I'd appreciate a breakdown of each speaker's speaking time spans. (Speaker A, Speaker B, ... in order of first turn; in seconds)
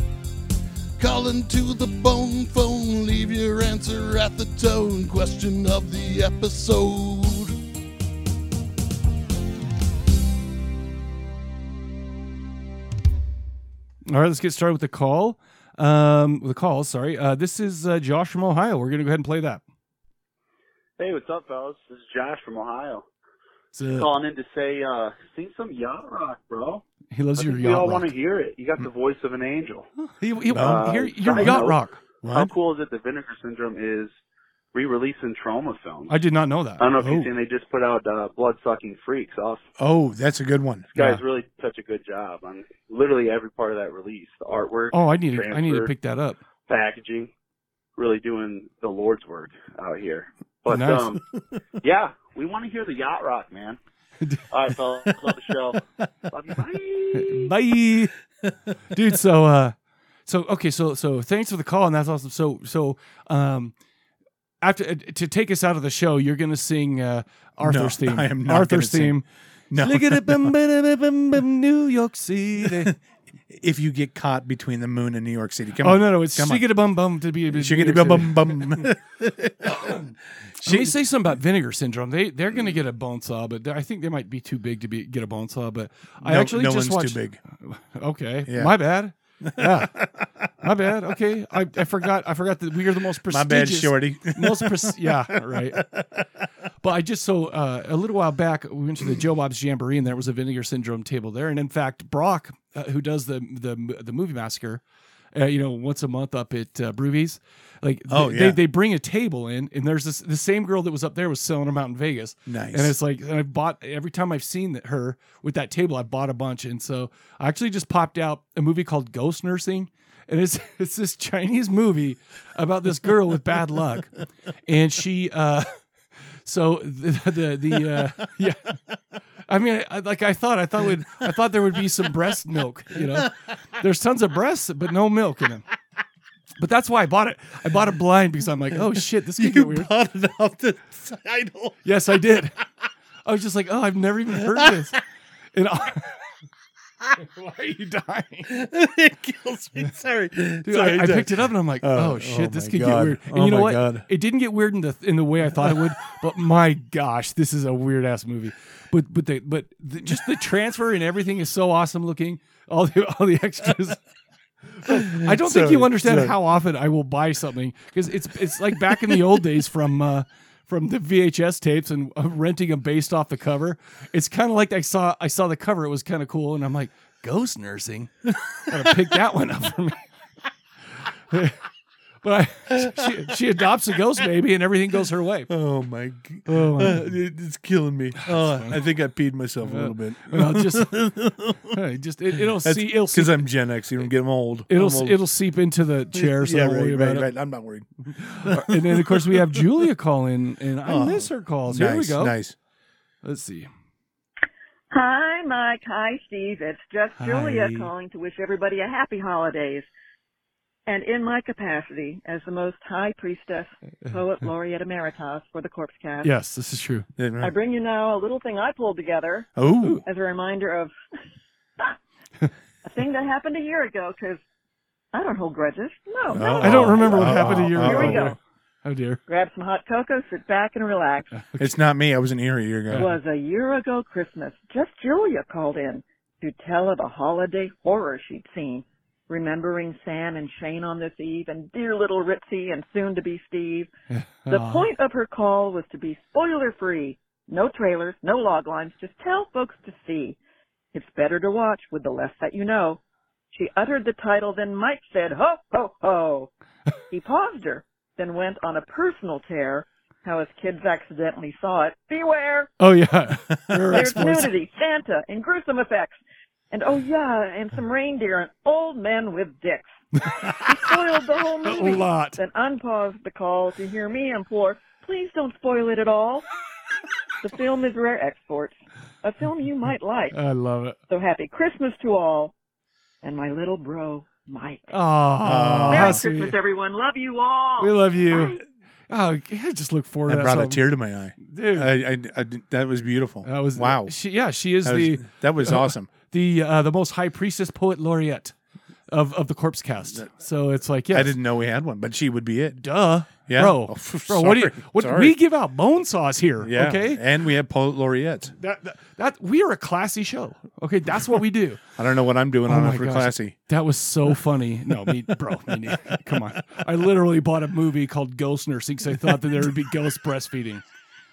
Speaker A: 1.0-7.5
Speaker B: 14.1-19.6, 23.7-24.1, 27.1-28.1, 30.1-32.0, 36.1-37.3, 41.0-41.2, 44.9-46.4, 50.7-51.1, 57.1-58.1, 58.9-59.7, 60.2-63.7, 64.6-72.9, 75.8-78.9, 79.7-80.1, 80.6-90.0, 90.6-95.9, 96.8-104.8, 105.3-125.8, 126.4-128.8, 129.5-135.7, 136.6-139.9, 141.8-142.6, 143.2-145.0, 145.5-146.2, 147.2-148.5, 150.6-164.0, 164.8-178.1, 178.7-180.0, 181.3-181.6, 182.2-185.5, 186.4-187.2, 188.2-188.8, 189.6-190.9, 191.7-193.5, 194.7-197.3, 198.1-202.3, 203.2-203.7, 207.2-207.9, 216.2-217.1, 226.6-229.2, 231.3-231.8, 244.1-244.9, 262.8-264.5, 270.3-270.6, 271.6-272.4, 280.3-281.0, 284.9-286.6, 287.8-288.6, 289.1-290.9, 291.4-291.9, 293.4-298.5, 299.1-301.3, 302.8-307.2, 308.6-311.8, 312.6-320.8
Speaker C: 21.0-23.0, 23.9-26.8, 27.4-29.9, 30.5-34.1, 34.7-36.1, 36.8-39.6, 41.0-45.9, 46.7-47.3, 48.0-51.2, 51.8-53.8, 54.5-57.5
Speaker D: 30.5-31.6, 32.2-32.5, 39.8-41.0, 67.6-69.2, 69.7-70.5, 72.6-72.9, 73.5-76.7, 77.5-80.0, 80.6-81.0, 86.2-87.4, 88.5-88.8, 89.4-90.9, 93.2-96.3, 108.1-108.6, 112.5-112.9, 132.9-133.2, 138.9-141.8, 144.4-144.8, 148.5-154.1, 155.6-155.9, 164.8-166.3, 182.7-183.1, 185.5-191.8, 192.5-195.2, 196.1-199.6, 200.8-202.5, 217.2-217.5, 219.6-220.0, 226.3-228.3, 231.6-233.1, 285.4-286.2, 290.2-294.1, 294.8-296.1, 301.1-302.8, 303.4-305.3, 306.6-308.5, 311.9-313.5, 319.3-319.6
Speaker E: 204.9-209.9, 210.8-216.3, 217.4-220.9, 222.8-224.4, 225.1-228.4, 229.3-231.3, 233.0-243.9, 244.5-250.4, 250.9-253.0, 253.5-256.5, 257.1-262.7, 263.9-266.2, 266.7-276.5, 277.4-280.4, 281.1-282.5, 283.2-284.8, 285.9-288.6